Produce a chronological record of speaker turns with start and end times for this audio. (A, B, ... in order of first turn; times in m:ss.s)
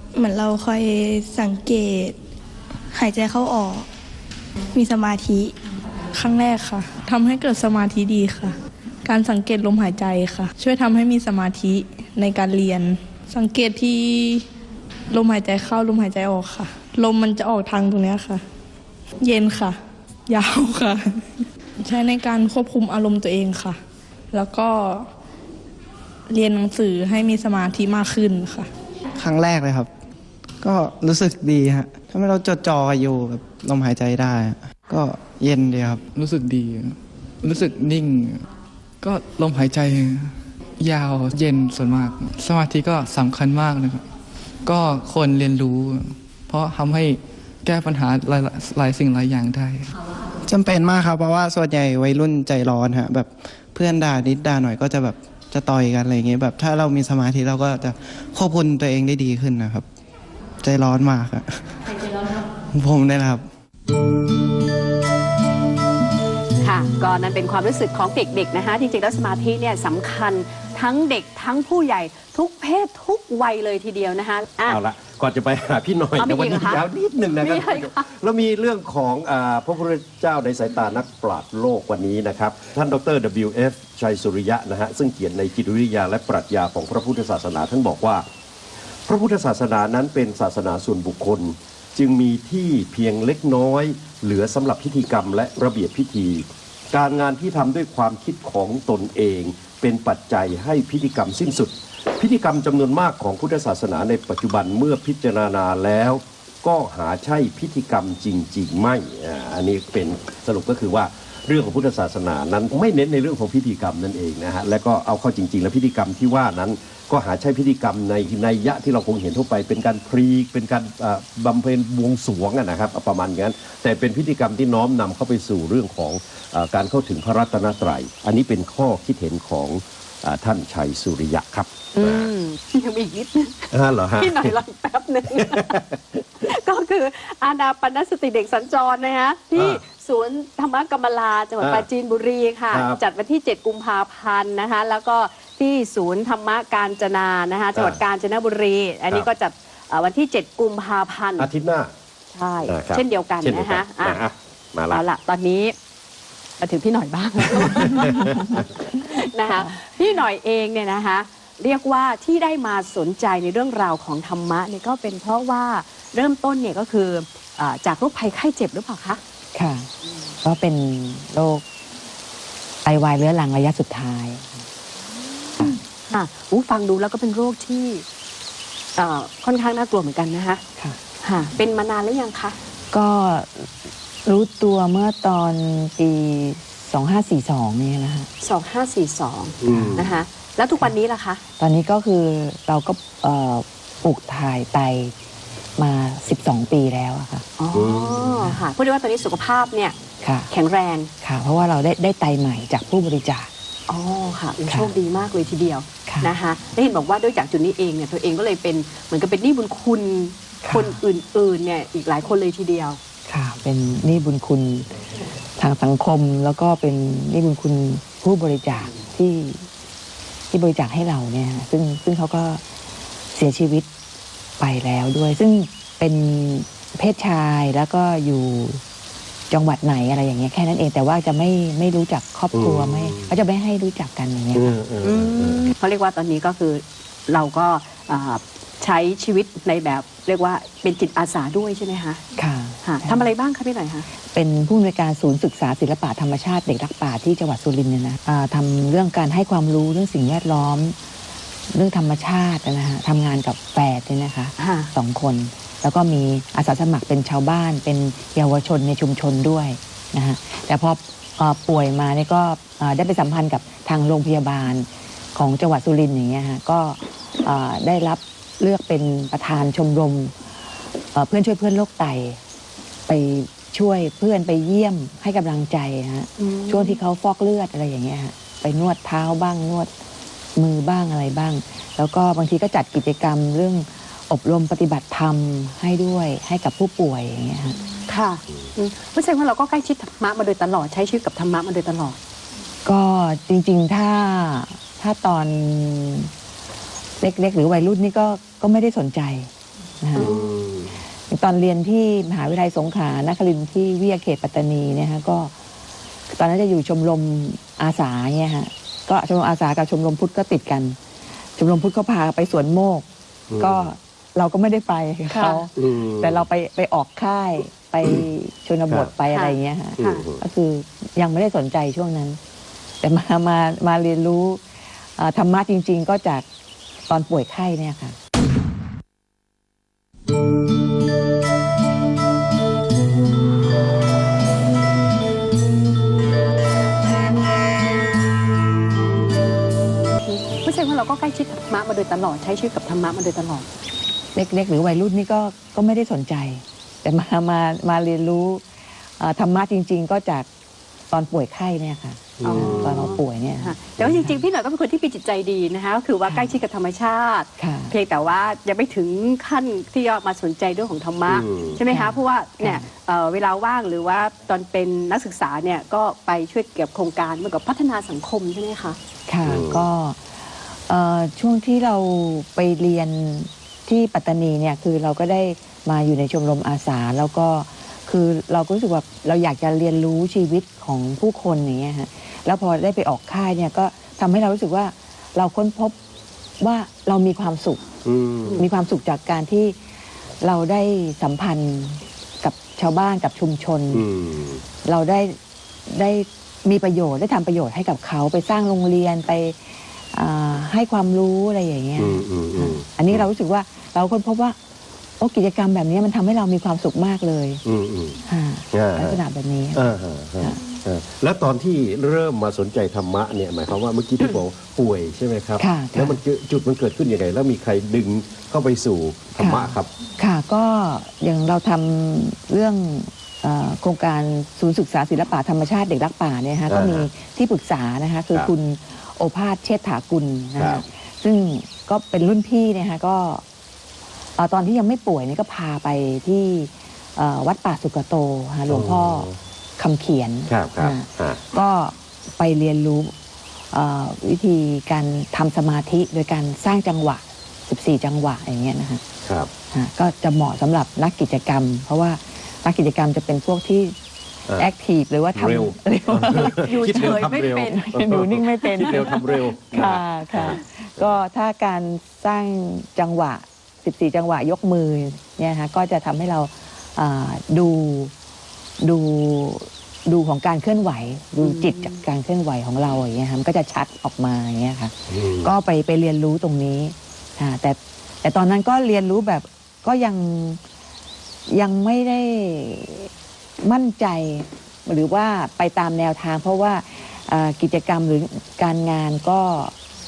0:00.2-0:02.2 A
0:02.9-0:03.9 A
0:04.8-0:05.5 A
0:06.1-0:14.5 B
0:15.1-0:18.4 B
0:19.2-0:19.8 B
0:20.3-0:23.8 B
0:24.3-0:25.0 B
0:26.3-0:28.7 B
0:29.2-0:29.9 C
0:30.6-0:36.0 C
0:36.1-0:38.4 D
0:39.0-0:44.0 D
0:44.7-0:49.9 D
0:50.4-0:59.8 C
1:00.6-1:01.9 C
1:02.7-1:03.5 C
1:06.6-1:14.8 E
1:14.7-1:28.2 F
1:16.2-1:16.8 E
1:17.4-1:18.0 E
1:29.1-2:12.3 F
2:12.0-2:15.8 E
2:13.7-2:14.6 F
2:15.3-2:16.2 F
2:16.4-2:31.5 E
2:19.6-2:19.8 F
2:21.6-2:21.9 F
2:22.7-2:23.0 F
2:27.8-2:28.0 F
2:31.4-2:31.9 F
2:32.3-2:34.2 E
2:32.7-2:35.0 F
2:34.9-2:35.7 E
2:36.6-2:49.2 E
2:37.8-2:38.6 F
2:38.3-2:38.6 G
2:49.6-2:49.9 G
2:50.4-2:51.6 G
2:52.8-2:54.7 G
2:55.6-2:58.0 E
2:59.0-3:00.6 E
3:01.2-3:02.6 E
3:02.9-3:03.7 G
3:04.3-3:08.3 G
3:08.4-3:11.4 E
3:09.6-3:10.2 F
3:09.7-3:09.9 G
3:11.6-3:15.1 G
3:15.8-3:17.4 G
3:17.6-3:20.0 E
3:17.7-3:18.5 F
3:20.2-3:20.5 G
3:20.5-3:21.1 E
3:21.2-3:23.5 G
3:23.9-3:33.0 E
3:24.7-3:24.9 G
3:26.1-3:26.3 G
3:30.6-3:31.0 G
3:33.3-3:34.9 G
3:35.6-3:39.7 G
3:40.5-3:42.6 G
3:43.3-3:43.9 G
3:44.6-3:48.8 G
3:49.5-3:54.8 G
3:52.5-3:53.3 F
3:54.5-3:55.7 F
3:55.0-4:02.2 E
4:02.4-4:03.3 G
4:02.8-4:04.1 E
4:04.3-4:11.0 G
4:11.7-4:30.3 G
4:14.6-4:14.9 E
4:31.1-4:32.4 G
4:33.1-4:39.9 G
4:36.4-4:37.0 E
4:40.6-4:47.8 G
4:48.1-4:52.2 E
4:52.8-4:56.3 G
4:57.2-4:59.5 G
5:00.0-5:00.3 G
5:00.2-5:00.9 F
5:01.3-5:05.5 G
5:06.3-5:11.0 G
5:11.6-5:13.0 G
5:13.5-5:13.9 F
5:13.6-5:22.4 G
5:15.3-5:15.7 E
5:15.8-5:16.5 F
5:19.3-5:20.2 E
5:20.0-5:20.4 F
5:23.0-5:24.6 G
5:25.2-5:26.5 G
5:27.1-5:28.2 G
5:40.2-5:43.7 E
5:44.4-5:48.6 G
5:49.2-5:50.5 G
5:51.1-5:54.4 G
5:52.4-5:53.2 F
5:52.4-6:09.0 E
5:56.2-5:56.6 G
5:57.6-5:57.9 G
6:01.3-6:01.8 F
6:01.9-6:02.9 G
6:09.3-6:10.2 G
6:09.4-6:09.9 F
6:10.9-6:26.0 G
6:26.6-6:27.8 G
6:28.0-6:28.7 F
6:28.6-6:29.8 G
6:30.4-6:34.0 G
6:33.9-6:34.6 F
6:34.8-6:35.4 G
6:35.9-6:44.6 G
6:42.0-6:43.3 F
6:45.2-6:47.6 G
6:47.6-6:48.2 F
6:48.2-6:49.8 G
6:48.7-6:49.2 F
6:49.7-6:59.9 F
6:55.6-6:56.2 G
6:59.4-7:13.4 G
7:06.7-7:07.1 F
7:10.6-7:10.8 F
7:14.4-7:23.1 G
7:18.7-7:19.4 F
7:20.5-7:21.4 F
7:23.7-7:29.0 G
7:29.2-7:29.5 F
7:29.7-7:34.0 G
7:34.6-7:48.1 G
7:35.4-7:41.2 F
7:36.5-7:37.8 E
7:38.8-7:39.2 E
7:48.8-8:00.6 G
7:51.4-7:52.0 E
7:55.1-7:55.5 F
8:01.5-8:03.1 G
8:03.6-8:09.7 G